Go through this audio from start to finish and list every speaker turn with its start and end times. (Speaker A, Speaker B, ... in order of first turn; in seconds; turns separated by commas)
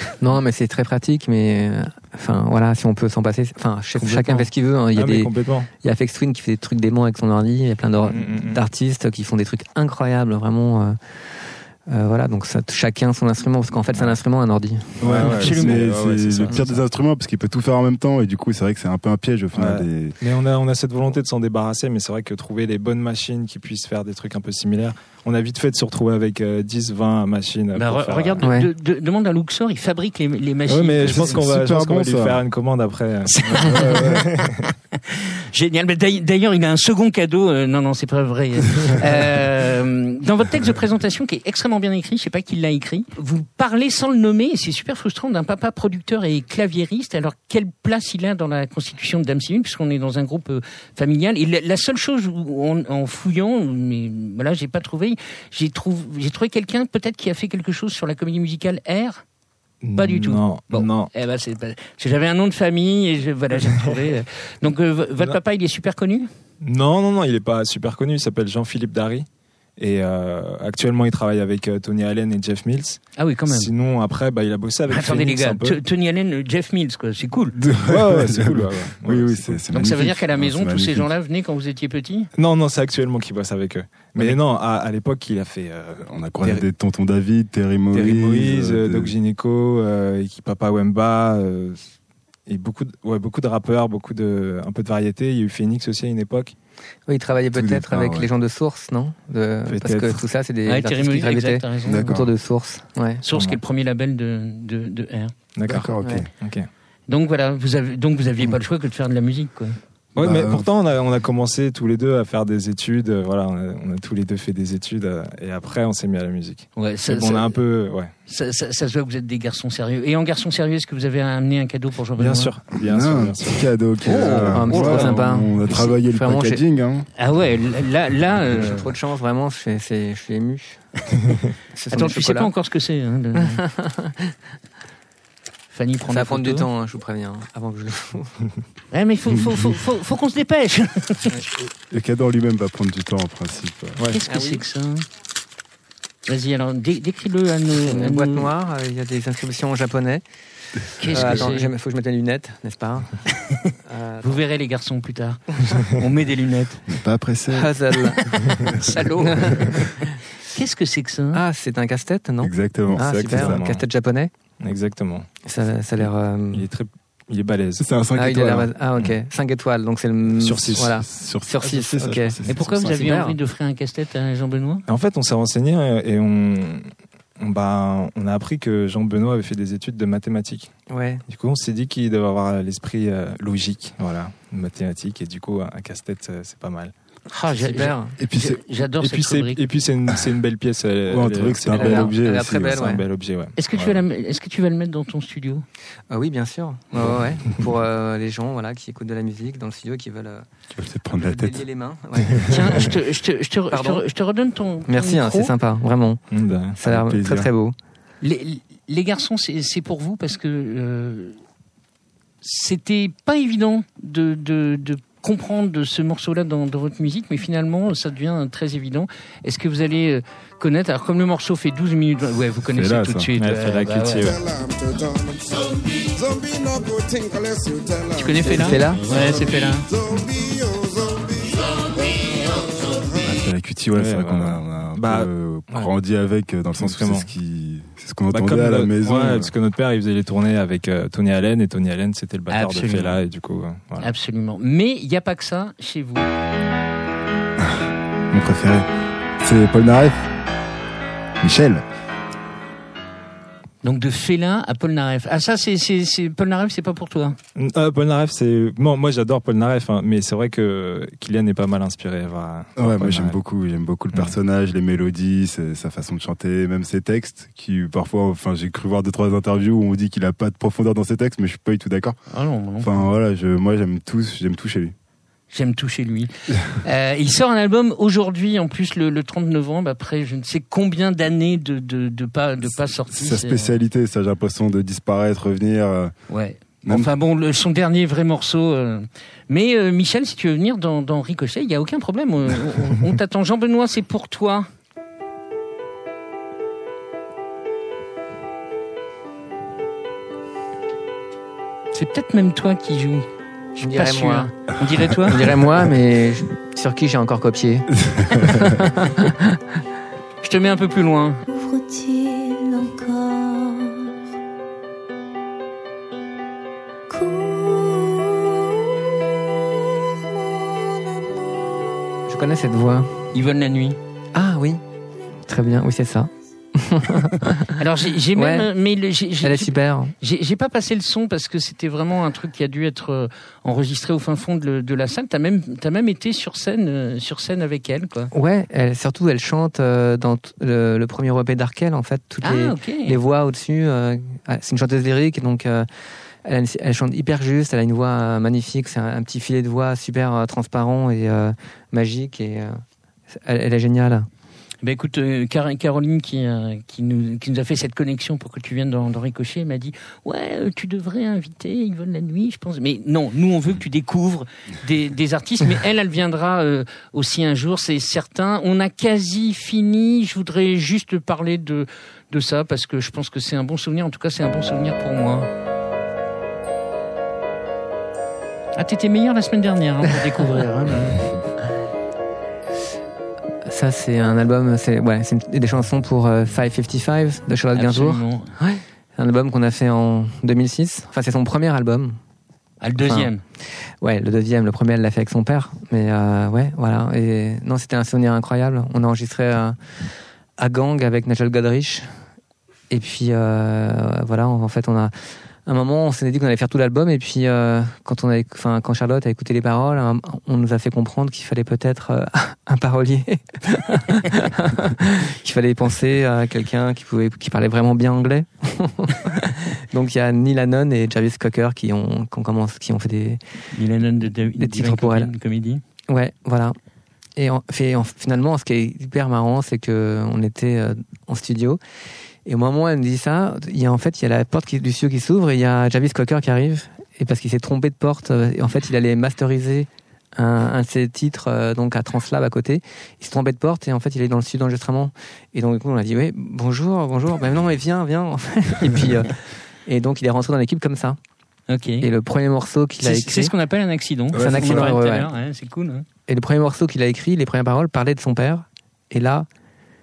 Speaker A: 0.2-15.2, Speaker B: 4.0-5.7, Speaker B: 8.1-8.6, Speaker B: 13.9-14.2, Speaker B: 15.0-16.8, Speaker C: 15.0-20.2, Speaker D: 15.2-15.8, Speaker B: 19.5-28.6, Speaker D: 27.7-31.4, Speaker A: 28.4-28.7, Speaker B: 30.7-34.6, Speaker C: 31.0-32.4, Speaker D: 33.4-34.3, Speaker C: 33.6-34.2, Speaker D: 35.1-59.2, Speaker B: 59.8-61.1, Speaker D: 60.0-66.3, Speaker B: 66.6-75.8, Speaker D: 73.2-73.7, Speaker D: 74.9-77.6, Speaker C: 77.6-81.1, Speaker B: 77.8-79.6, Speaker D: 79.7-82.3, Speaker B: 82.3-86.7, Speaker C: 86.1-89.1, Speaker B: 87.9-91.8, Speaker B: 92.5-96.5, Speaker A: 97.1-103.2, Speaker C: 97.5-98.3, Speaker B: 99.7-100.2, Speaker D: 100.7-102.2, Speaker C: 101.9-102.3, Speaker D: 103.2-105.3, Speaker B: 103.3-103.6, Speaker B: 105.5-106.7, Speaker C: 105.7-106.2, Speaker A: 106.0-106.3, Speaker D: 107.1-109.7, Speaker B: 110.1-118.1, Speaker C: 110.2-110.6, Speaker D: 116.8-117.6, Speaker D: 118.3-122.5, Speaker B: 122.2-125.3, Speaker C: 122.8-127.1, Speaker D: 124.0-125.9, Speaker A: 124.4-126.6, Speaker D: 127.2-128.9, Speaker A: 128.5-130.8, Speaker A: 131.7-132.5, Speaker D: 131.9-133.6, Speaker A: 133.3-134.3, Speaker D: 135.7-136.7, Speaker A: 136.1-138.3, Speaker D: 138.9-141.4, Speaker C: 141.6-144.0, Speaker B: 144.0-144.2, Speaker D: 144.1-145.0, Speaker A: 144.3-144.6, Speaker D: 146.3-148.5, Speaker A: 147.8-150.2, Speaker D: 151.0-151.7, Speaker A: 151.1-153.2, Speaker A: 153.8-154.4, Speaker D: 154.2-156.9, Speaker C: 156.9-157.7, Speaker A: 157.5-158.5, Speaker D: 158.3-161.4, Speaker A: 159.2-159.8, Speaker A: 161.3-164.3, Speaker C: 162.4-163.6, Speaker B: 162.9-163.9, Speaker B: 164.6-165.3, Speaker A: 165.4-166.7, Speaker B: 166.0-167.9, Speaker C: 167.8-168.7, Speaker A: 168.1-173.4, Speaker B: 170.4-171.0, Speaker C: 171.0-173.2, Speaker D: 172.5-174.8, Speaker B: 174.9-180.7, Speaker A: 180.9-181.2, Speaker B: 181.3-186.9, Speaker D: 187.3-189.6, Speaker A: 187.6-188.1, Speaker C: 188.2-188.5, Speaker B: 188.9-194.1, Speaker C: 191.1-192.5, Speaker A: 191.7-193.0, Speaker D: 193.6-195.6, Speaker A: 196.1-200.5, Speaker B: 196.9-197.6, Speaker C: 200.7-201.6, Speaker A: 201.1-202.9, Speaker D: 202.5-205.5, Speaker A: 203.7-204.1, Speaker A: 204.8-206.2, Speaker B: 206.3-206.8, Speaker A: 206.8-207.8, Speaker C: 206.8-207.5, Speaker D: 208.2-211.4, Speaker D: 212.4-224.3, Speaker C: 222.7-223.2, Speaker B: 223.4-224.6, Speaker D: 228.1-229.9, Speaker A: 228.4-229.0, Speaker C: 233.2-239.5, Speaker B: 233.9-235.9, Speaker B: 236.8-237.3, Speaker B: 238.3-244.1, Speaker D: 242.5-243.1, Speaker D: 244.0-246.3, Speaker C: 248.3-248.9, Speaker C: 249.4-250.2, Speaker C: 251.4-251.8, Speaker D: 253.8-257.4, Speaker B: 257.6-263.4, Speaker C: 262.8-272.2, Speaker D: 272.3-273.0, Speaker C: 272.8-274.9, Speaker D: 275.5-283.8, Speaker C: 283.1-286.1, Speaker D: 286.3-294.7, Speaker D: 301.9-303.3, Speaker D: 303.8-305.5, Speaker A: 303.8-304.5, Speaker A: 305.1-309.6, Speaker C: 308.1-308.6, Speaker D: 310.4-311.4, Speaker E: 311.5-314.1, Speaker E: 317.1-319.2, Speaker A: 322.3-323.1, Speaker D: 323.3-324.0, Speaker A: 324.3-324.8, Speaker A: 325.5-327.7, Speaker D: 327.8-338.3, Speaker A: 328.4-328.7, Speaker A: 329.4-330.1, Speaker A: 338.3-345.9, Speaker D: 342.4-343.2, Speaker A: 346.4-354.3, Speaker D: 354.8-375.5, Speaker D: 378.8-381.2, Speaker A: 383.6-392.2, Speaker D: 387.7-388.5, Speaker D: 392.8-393.4, Speaker A: 393.0-393.3, Speaker A: 393.9-399.8, Speaker A: 400.6-402.1, Speaker A: 402.9-405.1, Speaker A: 405.6-423.4, Speaker D: 423.7-425.8, Speaker A: 424.6-425.3, Speaker A: 426.1-426.8, Speaker A: 427.4-431.8, Speaker A: 432.4-451.2, Speaker D: 451.7-452.1, Speaker A: 452.0-453.5, Speaker D: 453.0-456.1, Speaker A: 454.3-455.3, Speaker C: 454.4-454.9, Speaker A: 456.3-459.5